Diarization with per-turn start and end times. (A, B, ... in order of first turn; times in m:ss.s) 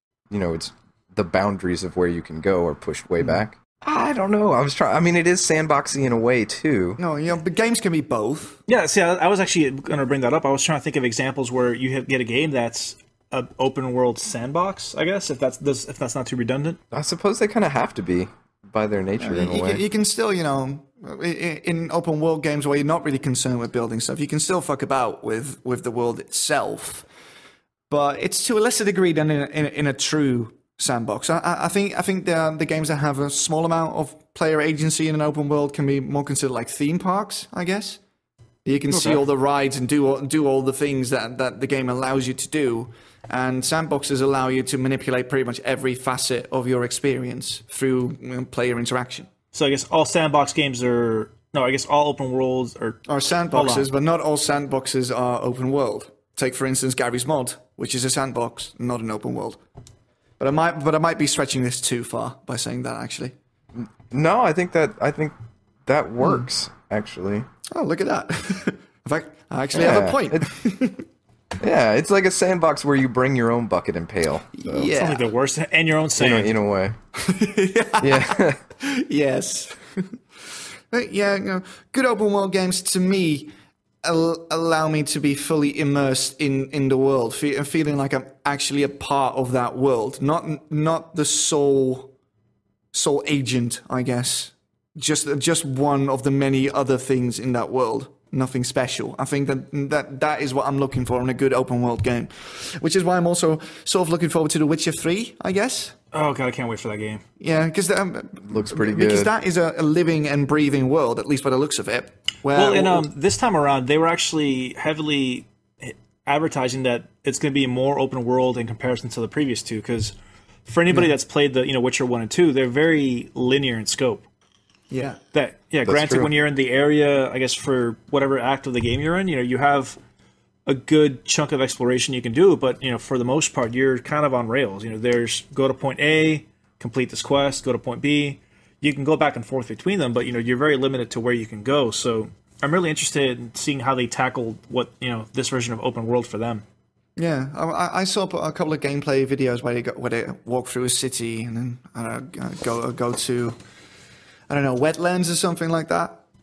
0:00.3-0:07.0 A
0:07.0-0:08.6 B
0:08.7-0:16.8 C
0:16.9-0:19.8 A
0:19.2-0:27.1 B
0:27.9-0:38.0 B
0:38.6-0:49.3 B
0:38.9-0:39.2 C
0:49.5-0:53.9 C
0:53.1-0:59.6 B
1:00.4-1:03.3 B
1:03.8-1:05.3 A
1:05.9-1:07.5 A
1:06.2-1:06.5 B
1:07.7-1:11.1 B
1:09.7-1:10.5 A
1:11.6-1:14.9 A
1:14.5-1:15.3 B
1:15.0-1:16.5 C
1:16.2-1:17.0 A
1:17.2-1:23.5 B
1:18.0-1:18.6 A
1:24.0-1:32.1 B
1:32.9-1:46.0 B
1:46.1-1:47.2 C
1:47.4-1:53.0 B
1:48.4-1:49.3 A
1:52.5-2:00.2 C
2:00.7-2:04.2 C
2:04.9-2:05.2 B
2:05.3-2:10.0 C
2:05.8-2:06.3 A
2:10.7-2:26.6 C
2:27.2-2:33.6 B
2:34.5-2:36.2 B